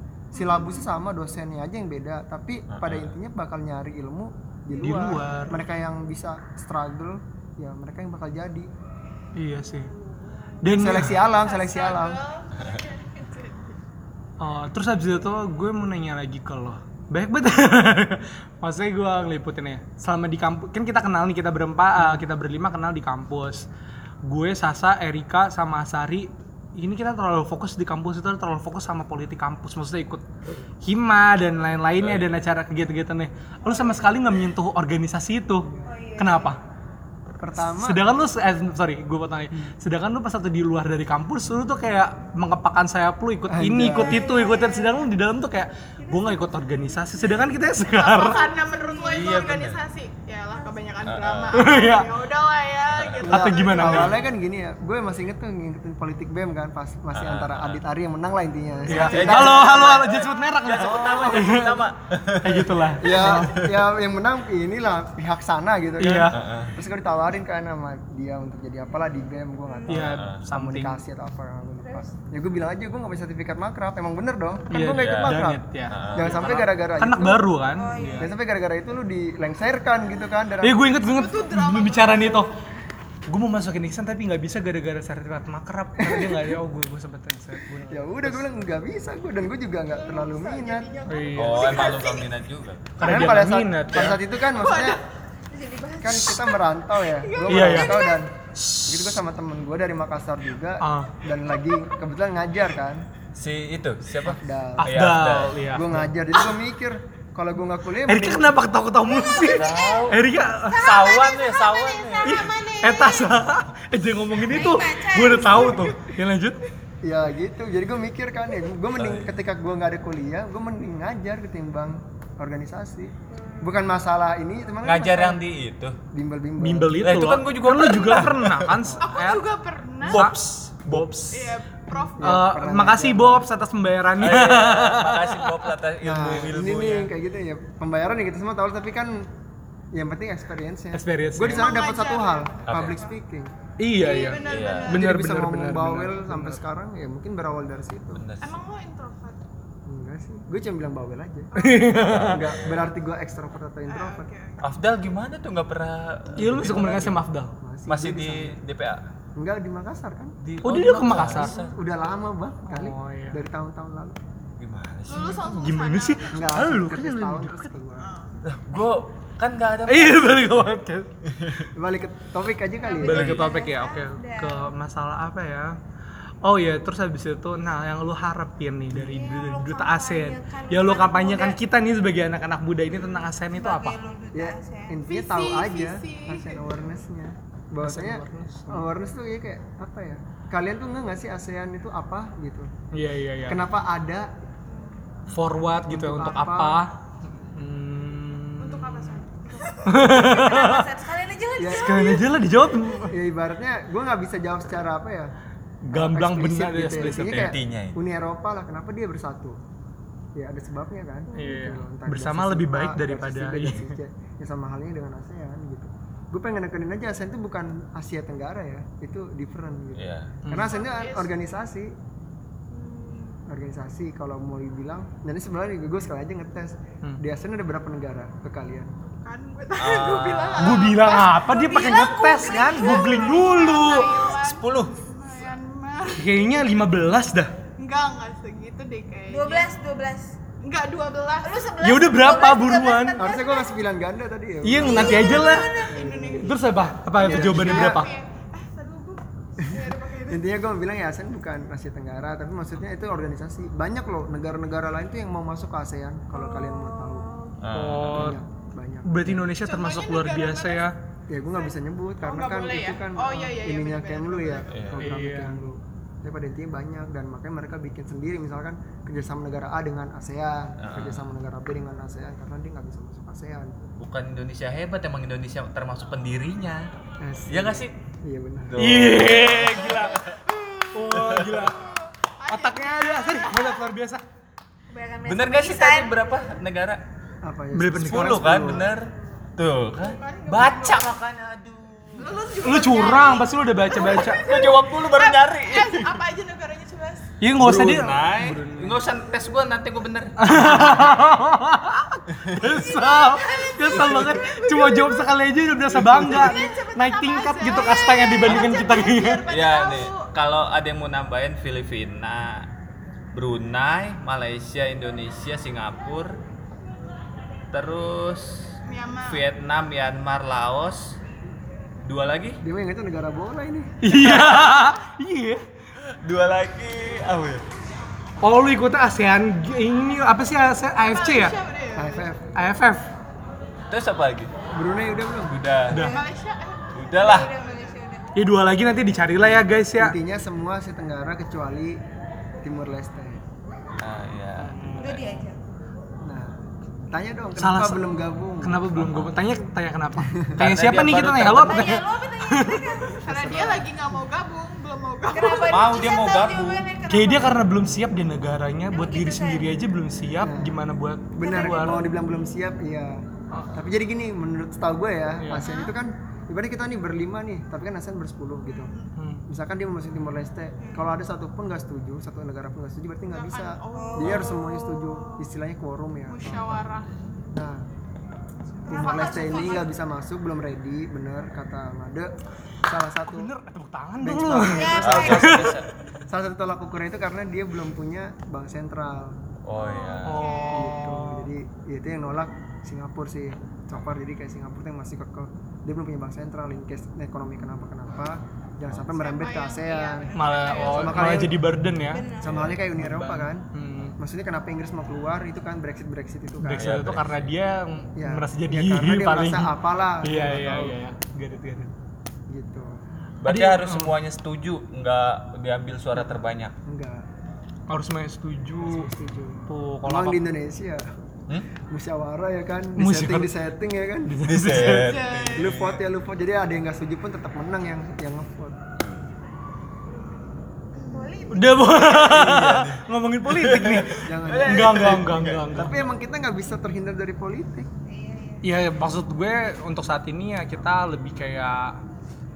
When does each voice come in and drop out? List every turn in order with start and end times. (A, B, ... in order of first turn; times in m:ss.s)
0:00.3-0:08.7 A
0:00.4-0:00.8 B
0:02.7-0:03.1 C
0:04.7-0:05.6 D
0:04.7-0:05.4 B
0:09.3-0:09.9 D
0:09.9-0:13.8 B
0:10.6-0:11.2 D
0:10.7-0:12.2 A
0:14.4-0:23.7 D
0:22.0-0:22.2 A
0:24.2-0:30.2 D
0:30.8-0:36.6 D
0:35.6-0:35.9 A
0:35.8-0:36.6 E
0:37.4-0:38.0 A
0:37.6-0:48.5 D
0:43.5-0:44.3 A
0:44.0-0:45.1 E
0:46.0-0:47.5 E
0:47.9-0:54.2 B
0:48.2-0:49.4 E
0:49.1-0:49.8 C
0:51.0-0:51.8 C
0:51.5-0:52.1 D
0:52.9-0:53.2 C
0:53.2-1:00.1 A
0:53.2-0:54.2 D
0:57.1-0:57.8 C
0:58.9-1:03.6 D
0:58.9-0:59.4 B
0:58.9-1:03.8 C
1:00.7-1:01.8 A
1:03.0-1:17.5 A
1:06.0-1:06.4 D
1:06.3-1:06.7 C
1:09.7-1:10.0 E
1:09.9-1:11.0 D
1:10.0-1:10.4 C
1:11.8-1:12.1 E
1:14.7-1:18.3 D
1:14.9-1:16.6 C
1:17.7-1:18.4 E
1:18.2-1:20.8 A
1:20.6-1:22.5 D
1:21.0-1:22.5 B
1:23.3-1:28.5 D
1:26.0-1:26.5 A
1:27.9-1:30.9 A
1:29.9-1:32.3 B
1:31.1-1:31.9 D
1:31.4-1:33.3 C
1:33.0-1:34.2 D
1:33.0-1:35.0 A
1:34.4-1:35.0 B
1:35.5-1:36.6 E
1:36.0-1:38.3 A
1:37.2-1:38.0 B
1:37.5-1:38.0 D
1:38.6-1:39.1 D
1:38.8-1:43.0 A
1:40.8-1:41.1 D
1:43.3-1:45.6 C
1:44.2-1:45.1 A
1:44.8-1:46.1 D
1:45.7-1:48.6 A
1:48.0-1:51.0 D
1:49.0-1:53.4 E
1:49.4-1:50.2 C
1:50.7-1:52.6 C
1:52.2-1:56.6 D
1:54.5-1:56.0 E
1:57.0-2:05.4 A
1:58.9-1:59.3 C
2:03.3-2:03.7 E
2:04.8-2:06.0 C
2:06.1-2:07.0 A
2:06.6-2:09.4 D
2:07.0-2:08.8 C
2:09.0-2:10.2 B
2:10.0-2:11.1 C
2:10.0-2:11.6 D
2:11.3-2:12.3 B
2:12.2-2:13.5 A
2:12.2-2:15.7 D
2:14.2-2:17.1 C
2:16.0-2:19.3 A
2:19.9-2:23.5 A
2:20.9-2:21.8 D
2:21.5-2:23.1 B
2:22.7-2:23.0 C
2:23.8-2:26.6 D
2:23.9-2:25.0 B
2:24.3-2:25.0 C
2:24.9-2:28.2 A
2:28.1-2:28.6 C
2:28.4-2:29.4 B
2:29.8-2:31.5 A
2:31.5-2:32.0 B
2:31.5-2:32.5 D
2:32.0-2:32.8 C
2:32.2-2:34.3 A
2:33.9-2:34.6 B
2:34.6-2:37.2 C
2:36.4-2:37.5 D
2:36.4-2:38.6 A
2:37.9-2:39.0 C
2:39.4-2:40.4 A
2:40.4-2:41.7 C
2:40.6-2:41.6 D
2:41.1-2:44.2 A
2:42.6-2:43.4 D
2:44.6-2:45.5 C
2:45.1-2:46.5 B
2:45.4-2:47.7 D
2:46.3-2:48.1 A
2:48.0-2:48.4 B
2:48.4-2:50.5 C
2:49.8-2:51.1 D
2:51.3-2:51.6 C
2:51.7-2:53.4 A
2:52.8-2:54.7 E
2:53.0-2:55.8 D
2:53.1-2:53.5 C
2:56.4-3:04.0 D
2:59.0-3:01.6 E
3:02.9-3:05.0 E
3:04.3-3:12.7 A
3:05.1-3:06.8 B
3:07.8-3:08.9 D
3:12.9-3:13.6 D
3:13.4-3:14.3 A
3:14.7-3:15.0 E
3:15.3-3:19.2 D
3:15.9-3:16.8 A
3:18.6-3:19.8 B
3:19.6-3:23.0 E
3:19.8-3:20.9 D
3:21.6-3:22.1 A
3:21.7-3:23.2 D
3:23.1-3:25.3 A
3:25.8-3:27.5 D
3:25.9-3:29.6 A
3:27.0-3:28.0 C
3:30.3-3:42.0 A
3:31.3-3:31.7 E
3:31.3-3:33.9 D
3:39.9-3:40.3 C
3:40.4-3:40.8 D
3:40.5-3:41.3 B
3:42.7-3:43.4 E
3:43.5-3:48.9 A
3:49.0-3:56.5 B
3:49.8-3:50.9 C
3:50.6-3:54.1 D
3:51.5-3:53.8 E
3:53.9-3:55.0 C
3:56.1-3:57.5 D
3:57.8-3:59.7 B
3:59.3-4:00.3 E
4:00.6-4:01.8 B
4:01.4-4:03.8 E
4:01.8-4:03.2 D
4:03.2-4:06.5 A
4:04.6-4:08.1 D
4:04.8-4:06.3 E
4:05.8-4:10.5 B
4:07.2-4:08.0 A
4:09.6-4:17.3 A
4:16.3-4:17.6 E
4:17.6-4:18.4 C
4:17.7-4:18.4 D
4:18.1-4:19.5 A
4:19.0-4:20.9 D
4:19.6-4:20.9 B
4:21.3-4:33.7 A
4:21.6-4:24.8 B
4:24.7-4:25.0 C
4:25.0-4:25.6 D
4:30.8-4:31.3 C
4:34.0-4:36.9 C
4:37.2-4:38.8 A
4:37.5-4:37.9 C
4:38.6-4:40.4 C
4:38.8-4:40.3 D
4:40.5-4:41.0 B
4:40.9-4:41.9 D
4:41.1-4:41.6 C
4:41.7-4:43.8 B
4:42.5-4:44.2 D
4:44.9-4:46.4 E
4:45.2-4:47.0 C
4:47.4-4:48.9 A
4:47.7-4:48.7 D
4:48.0-4:52.4 C
4:50.0-4:51.1 B
4:52.2-4:57.3 B
4:52.6-4:54.5 D
4:54.1-4:56.2 C
4:57.4-4:59.0 D
4:57.6-5:01.3 C
5:00.4-5:09.4 D
5:02.3-5:02.8 C
5:02.8-5:04.1 E
5:03.2-5:05.2 B
5:06.0-5:06.5 A
5:06.1-5:10.3 B
5:09.5-5:12.7 C
5:13.3-5:16.4 C
5:17.7-5:21.2 C
5:18.8-5:19.4 B
5:22.0-5:22.6 C
5:22.6-5:23.9 A
5:24.0-5:25.6 D
5:24.1-5:24.6 C
5:26.1-5:27.6 C
5:28.4-5:31.6 D
5:31.0-5:32.3 B
5:31.9-5:32.4 A
5:32.5-5:33.1 D
5:33.9-5:34.5 C
5:34.7-5:35.6 A
5:35.4-5:36.0 C
5:35.9-5:36.2 D
5:35.9-5:36.3 E
5:36.0-5:38.0 B
5:36.9-5:37.5 C
5:37.1-5:38.4 E
5:38.3-5:40.2 D
5:39.4-5:42.0 A
5:42.6-5:43.4 A
5:44.0-5:45.2 C
5:44.6-5:45.3 A
5:45.0-5:45.6 E
5:46.2-5:46.6 A
5:47.1-5:48.9 A
5:47.6-5:53.2 D
5:49.0-5:49.4 C
5:50.2-5:50.6 A
5:50.6-5:52.0 C
5:51.6-5:53.2 E
5:53.2-5:53.9 A
5:53.2-5:55.9 B
5:55.3-5:57.6 E
5:55.6-5:56.8 C
5:57.1-6:02.1 D
5:58.9-5:59.8 E
6:00.4-6:00.8 A
6:01.3-6:08.9 A
6:01.4-6:01.9 E
6:05.4-6:05.6 D
6:08.7-6:09.1 B
6:09.2-6:09.4 D
6:09.5-6:16.8 A
6:10.8-6:11.1 E
6:13.3-6:15.4 B
6:13.9-6:14.5 E
6:14.2-6:14.6 C
6:16.3-6:17.1 B
6:17.5-6:17.8 A
6:18.8-6:19.9 E
6:18.9-6:22.3 A
6:19.0-6:19.6 B
6:22.8-6:23.5 A
6:23.2-6:25.8 D
6:24.2-6:25.7 A
6:24.7-6:25.5 E
6:25.0-6:25.9 C
6:26.3-6:29.4 A
6:29.6-6:30.6 C
6:30.1-6:31.0 B
6:30.2-6:31.5 D
6:30.7-6:41.6 A
6:39.1-6:41.4 B
6:40.3-6:42.3 D
6:42.1-6:42.5 E
6:42.4-6:43.6 A
6:42.4-6:42.8 C
6:43.0-6:44.2 D
6:44.2-6:47.0 A
6:46.6-6:51.9 D
6:46.7-6:47.5 C
6:48.2-6:51.0 A
6:52.5-6:53.0 A
6:53.4-6:56.7 C
6:53.5-6:54.1 D
6:56.8-6:57.2 A
6:57.9-6:59.1 D
6:58.9-7:01.0 A
6:59.7-7:00.4 D
7:01.8-7:04.4 A
7:03.0-7:03.5 D
7:04.2-7:05.1 D
7:04.4-7:06.0 C
7:05.0-7:05.8 B
7:05.5-7:08.8 A
7:09.0-7:09.3 C
7:11.0-7:11.3 B
7:11.0-7:12.0 E
7:11.5-7:16.1 D
7:12.0-7:15.9 C
7:14.2-7:17.9 A
7:18.0-7:18.6 E
7:18.6-7:22.0 D